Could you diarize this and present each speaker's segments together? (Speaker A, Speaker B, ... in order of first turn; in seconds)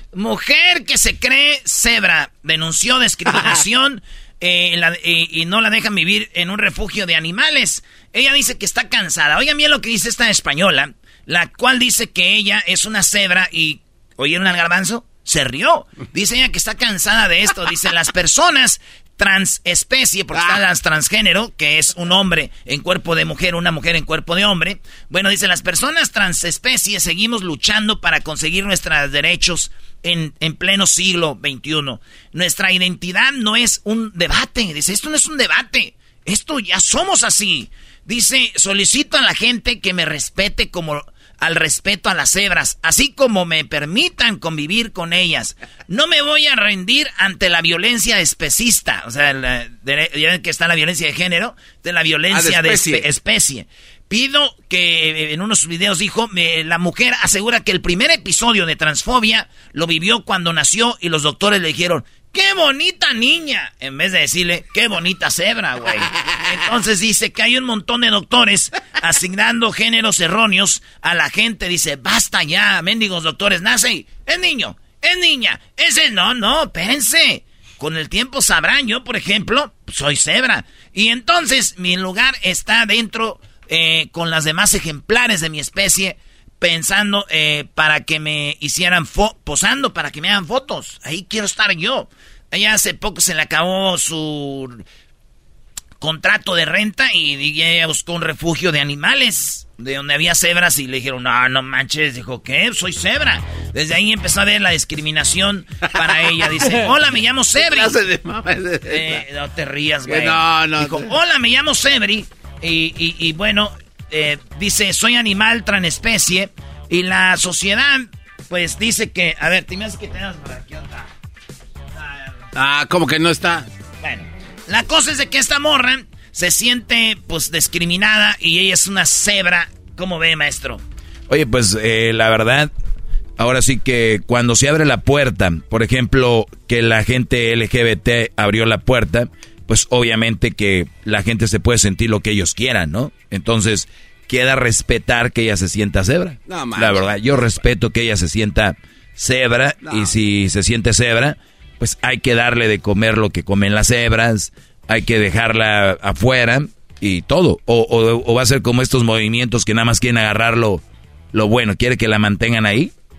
Speaker A: 0.1-94.8, 96.0-108.0, 108.9-121.1, 124.0-130.8
Speaker B: 3.3-3.6, 20.4-20.6, 52.3-53.1, 107.6-109.2, 110.1-111.1, 122.5-123.7, 146.5-147.4, 149.8-150.2
Speaker C: 131.3-132.7, 133.4-160.8, 161.3-162.9